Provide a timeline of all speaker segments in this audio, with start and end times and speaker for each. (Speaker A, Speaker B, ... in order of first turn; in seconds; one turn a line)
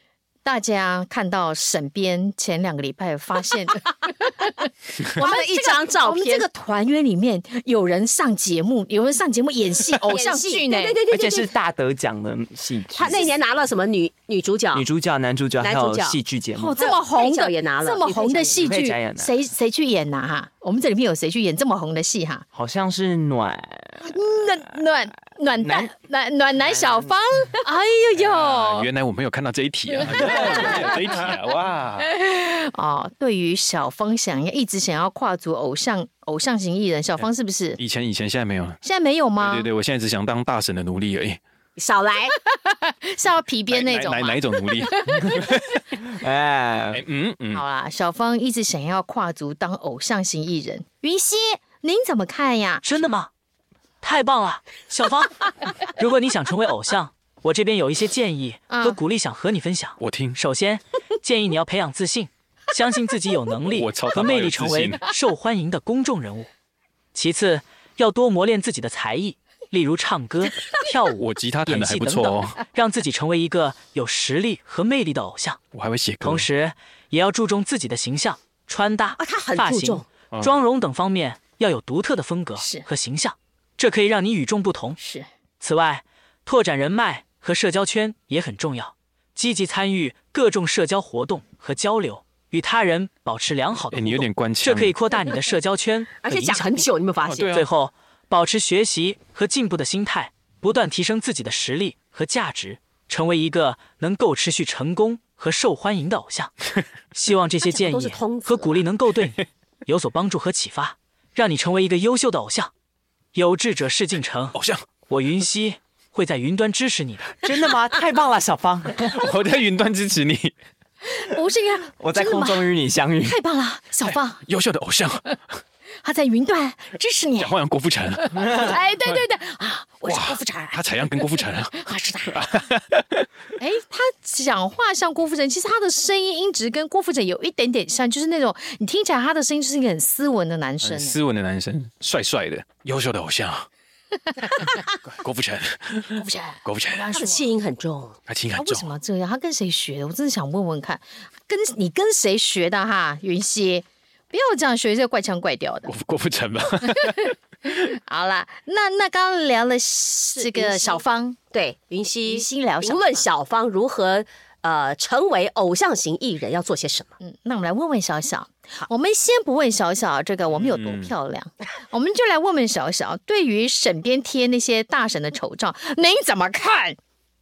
Speaker A: 0.5-11.0
Speaker B: 5.2-6.5
Speaker B: 10.1-11.5
Speaker C: 11.1-13.4
Speaker B: 12.9-14.8
Speaker C: 14.7-16.9
Speaker B: 15.6-16.2
Speaker A: 16.6-22.5
Speaker B: 16.8-18.6
Speaker C: 18.6-19.4
Speaker C: 22.5-24.1
Speaker A: 24.1-28.9
Speaker C: 25.6-25.9
Speaker C: 26.6-27.1
Speaker D: 28.2-32.1
Speaker A: 30.0-31.3
Speaker C: 30.1-30.7
Speaker A: 32.0-37.8
Speaker D: 37.8-38.8
Speaker A: 38.8-39.7
Speaker D: 39.4-41.4
Speaker B: 41.8-42.4
Speaker A: 42.4-45.5
Speaker D: 43.7-45.8
Speaker C: 46.2-47.0
Speaker D: 46.9-47.6
Speaker A: 47.5-52.8
Speaker E: 52.8-53.3
Speaker E: 54.0-66.5
Speaker A: 58.7-59.0
Speaker D: 60.0-60.4
Speaker D: 63.7-65.0
Speaker E: 67.1-75.6
Speaker D: 71.1-72.6
Speaker D: 75.7-76.5
Speaker E: 76.2-85.0
Speaker B: 79.2-80.0
Speaker A: 82.6-82.8
Speaker A: 85.0-85.3
Speaker E: 85.6-96.9
Speaker D: 93.9-95.0
Speaker B: 96.2-97.6
Speaker D: 97.3-97.7
Speaker E: 97.5-106.5
Speaker E: 107.1-112.7
Speaker B: 107.7-108.8
Speaker E: 113.3-114.6
Speaker D: 114.5-114.9
Speaker E: 115.1-117.4
Speaker C: 117.4-119.3
Speaker D: 119.1-120.5
Speaker A: 121.1-122.7
Speaker C: 122.0-123.4
Speaker A: 123.2-124.4
Speaker D: 124.0-125.2
Speaker A: 126.0-127.6
Speaker D: 127.4-128.3
Speaker A: 128.2-132.5
Speaker D: 130.1-131.8
Speaker D: 132.3-133.3
Speaker A: 133.6-141.2
Speaker D: 140.8-143.7
Speaker D: 144.6-147.1
Speaker A: 146.1-147.5
Speaker B: 147.1-148.2
Speaker D: 148.3-148.9
Speaker A: 148.6-155.9
Speaker D: 155.9-157.3
Speaker A: 156.9-161.4
Speaker B: 160.4-167.1
Speaker A: 162.3-163.3
Speaker A: 167.2-177.0
Speaker D: 170.6-171.1